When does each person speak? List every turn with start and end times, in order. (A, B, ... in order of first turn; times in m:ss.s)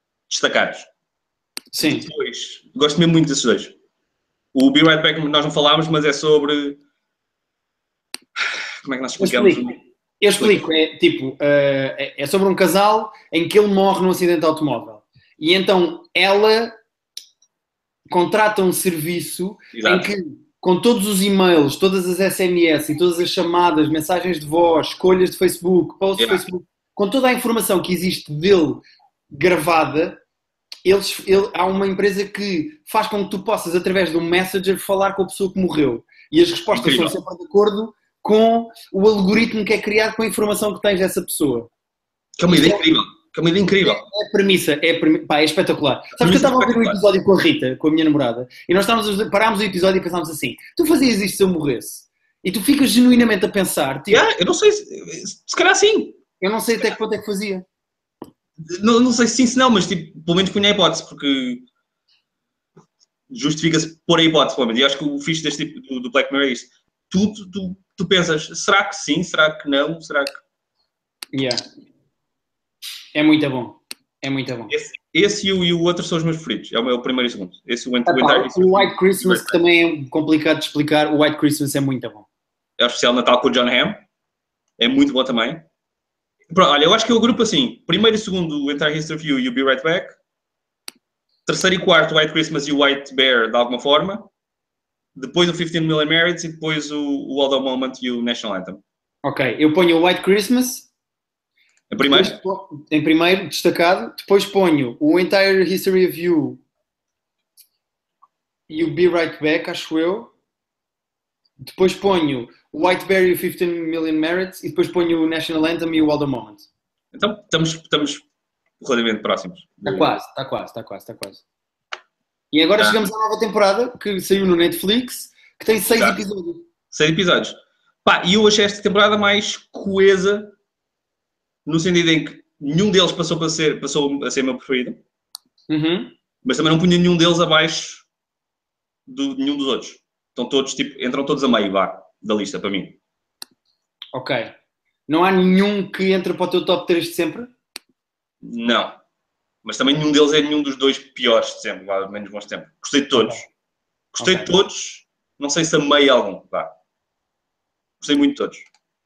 0:00.3-0:00.9 A
0:01.7-0:02.1 B
0:01.8-0:03.7 A
0:04.5-0:06.8 A
0:08.4-0:09.8 A
0:09.2-0:16.7 B
0:18.1-0:30.2 B
0:19.7-0:20.1 A
0:26.2-0:26.4 A
0:30.8-0:41.7 B
0:36.7-0:37.2 A
0:42.4-0:44.0 A
0:42.5-0:42.9 B
0:43.8-0:54.2 B
0:46.2-0:47.0 A
0:54.1-0:56.2 A
0:56.4-0:57.6 B
0:58.7-1:01.6 A
1:03.3-1:10.4 A
1:11.3-1:11.6 B
1:13.1-1:14.7 B
1:14.7-1:19.6 A
1:18.0-1:22.3 B
1:22.8-1:24.0 A
1:24.8-1:25.6 A
1:26.5-1:30.1 A
1:31.4-1:34.3 A
1:35.1-1:38.8 A
1:39.2-1:40.9 B
1:41.9-1:42.4 A
1:42.0-1:46.6 B
1:48.7-1:50.3 B
1:51.6-1:56.7 B
1:57.1-1:58.2 A
1:58.8-2:00.1 A
1:59.8-2:01.4 B
2:02.5-2:06.6 B
2:02.8-2:03.0 A
2:06.9-2:10.5 A
2:11.6-2:15.0 A
2:15.7-2:16.1 B
2:16.4-2:18.0 A
2:19.1-2:23.0 A
2:24.1-2:24.5 B
2:25.1-2:27.5 B
2:28.4-2:28.9 A
2:29.6-2:33.4 A
2:33.1-2:33.4 B
2:34.1-2:36.7 A
2:34.2-2:34.5 B
2:38.0-2:38.7 A